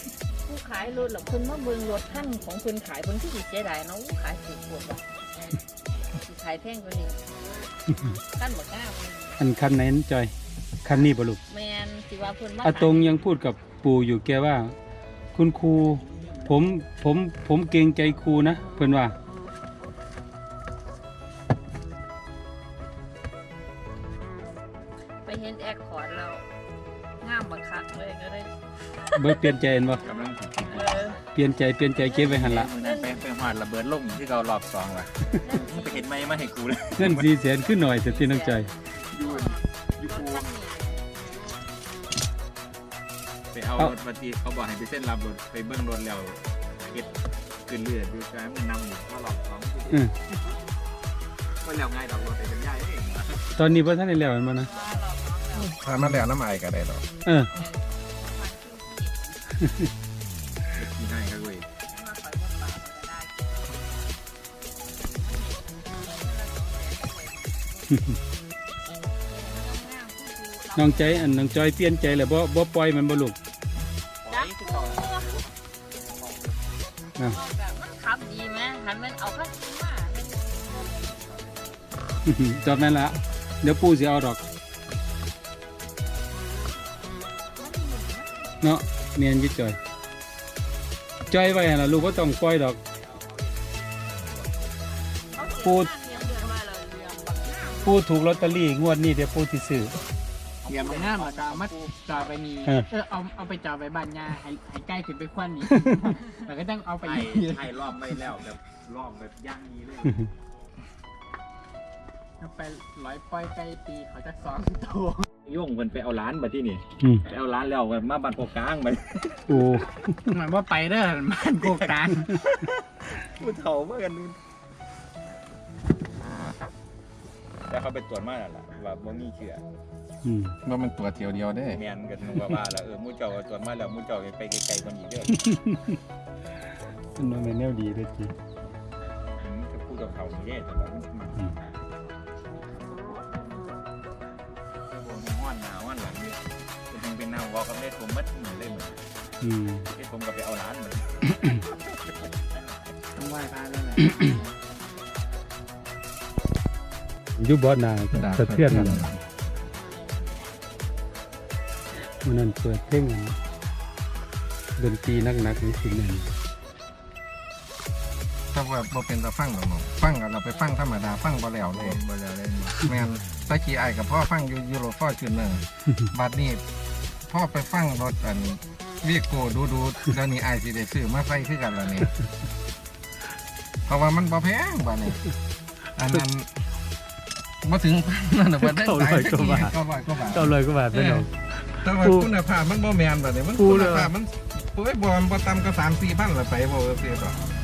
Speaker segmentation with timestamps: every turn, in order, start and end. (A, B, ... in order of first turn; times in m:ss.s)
0:00.4-0:05.0 A
0:06.2-0:07.2 A
0:08.3-0:09.4 A
0:09.4-0:10.3 B
0:10.8-0:11.4 B
0:11.5-0:13.1 A
0:12.6-0:14.8 B
0:15.4-0:19.1 B
0:25.2-0:26.4 A
0:27.2-0:28.5 A
0:29.1-0:29.5 A
0:29.2-0:30.0 B
0:30.0-0:31.1 C
0:30.6-0:31.2 A
0:31.4-0:32.7 B
0:32.0-0:37.3 C
0:32.0-0:33.2 A
0:35.4-0:36.1 A
0:37.0-0:38.7 B
0:37.8-0:41.0 A
0:39.1-0:40.5 C
0:43.5-0:47.1 C
0:47.6-0:50.0 C
0:51.6-0:53.5 C
0:53.6-0:54.7 B
0:54.5-0:55.9 A
0:55.5-0:57.0 D
0:57.2-0:57.5 B
0:57.5-0:59.4 A
0:59.6-0:59.9 B
1:00.7-1:01.7 C
1:01.9-1:04.0 A
1:04.9-1:08.2 A
1:07.9-1:08.2 B
1:09.2-1:11.3 A
1:10.8-1:13.4 B
1:14.2-1:16.6 C
1:14.3-1:15.4 A
1:17.2-1:21.2 A
1:20.9-1:21.8 C
1:22.2-1:24.4 B
1:27.6-1:28.4 A
1:28.6-1:29.8 B
1:31.3-1:32.8 B
1:33.0-1:34.9 C
1:35.3-1:38.0 A
1:35.6-1:35.9 B
1:36.1-1:36.5 C
1:37.8-1:40.0 B
1:40.6-1:42.3 C
1:40.7-1:47.8 E
1:42.6-1:42.9 B
1:45.7-1:46.0 B
1:47.0-1:50.3 C
1:52.4-1:55.3 E
1:55.4-1:59.5 C
1:59.5-2:00.3 B
2:00.3-2:02.2 E
2:01.5-2:04.4 C
2:07.7-2:09.6 C
2:10.2-2:10.6 B
2:10.6-2:11.8 D
2:11.7-2:15.4 C
2:15.4-2:16.0 B
2:17.2-2:18.3 B
2:19.4-2:21.6 C
2:24.9-2:26.4 C
2:26.9-2:29.0 C
2:29.4-2:29.9 B
2:29.9-2:32.7 C
2:33.1-2:34.2 E
2:37.4-2:39.0 B
2:38.1-2:39.2 D
2:42.2-2:43.4 B
2:44.8-2:46.3 B
2:48.5-2:52.0 D
2:51.7-2:52.9 C
2:52.8-2:56.6 D
2:57.3-3:02.1 D
3:03.9-3:05.2 D
3:06.0-3:06.7 D
3:07.6-3:11.3 D
3:08.6-3:12.3 B
3:11.8-3:17.4 D
3:13.6-3:14.1 B